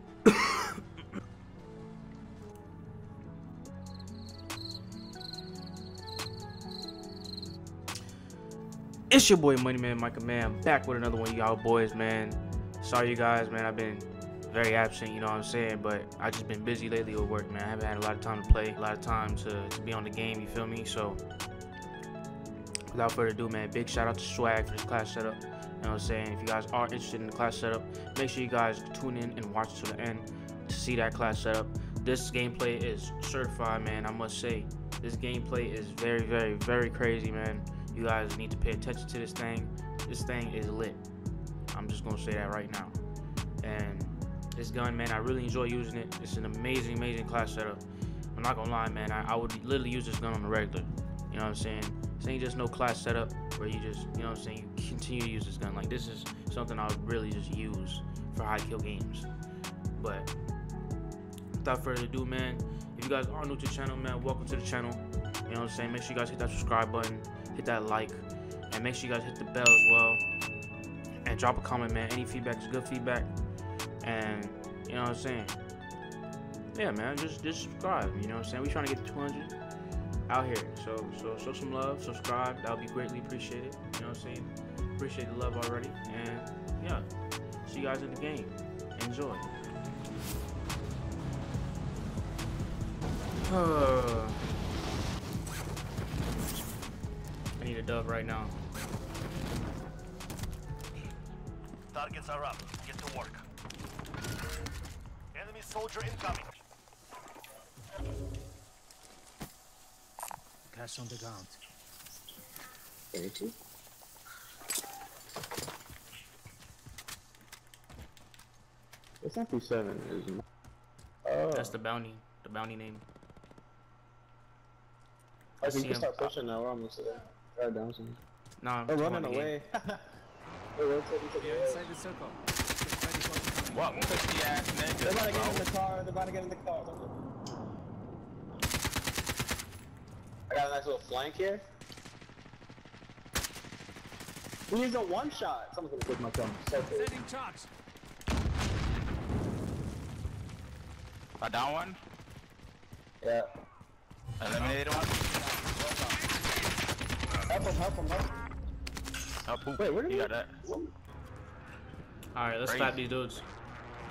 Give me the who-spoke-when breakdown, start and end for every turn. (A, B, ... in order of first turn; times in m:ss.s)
0:00.3-0:00.7 A
0:09.1-0:21.2 A
0:22.9-0:41.0 A
0:41.7-0:43.0 A
0:43.6-0:47.8 A
0:48.4-0:59.3 A
1:00.0-1:00.3 A
1:01.6-1:10.2 A
1:11.2-1:13.3 A
1:14.0-1:15.6 A
1:16.7-1:19.5 A
1:20.3-1:27.1 A
1:27.6-1:29.5 A
1:33.4-1:34.4 A
1:37.6-1:38.5 A
1:41.9-1:43.4 B
1:45.4-1:46.5 B
1:50.7-1:51.6 C
1:53.1-1:53.6 D
1:59.2-2:00.4 D
2:01.2-2:01.8 D
2:01.5-2:03.0 A
2:05.6-2:08.2 D
2:05.6-2:06.3 A
2:08.6-2:09.5 A
2:08.9-2:10.0 D
2:10.8-2:11.9 D
2:11.4-2:14.2 C
2:13.7-2:15.7 E
2:15.0-2:17.1 D
2:20.5-2:21.6 D
2:24.7-2:27.1 D
2:26.9-2:27.7 C
2:31.4-2:32.0 E
2:33.2-2:33.5 D
2:34.4-2:35.2 E
2:34.6-2:35.8 B
2:37.5-2:38.3 D
2:39.5-2:40.5 E
2:39.8-2:40.9 D
2:42.3-2:43.4 A
2:42.7-2:43.0 E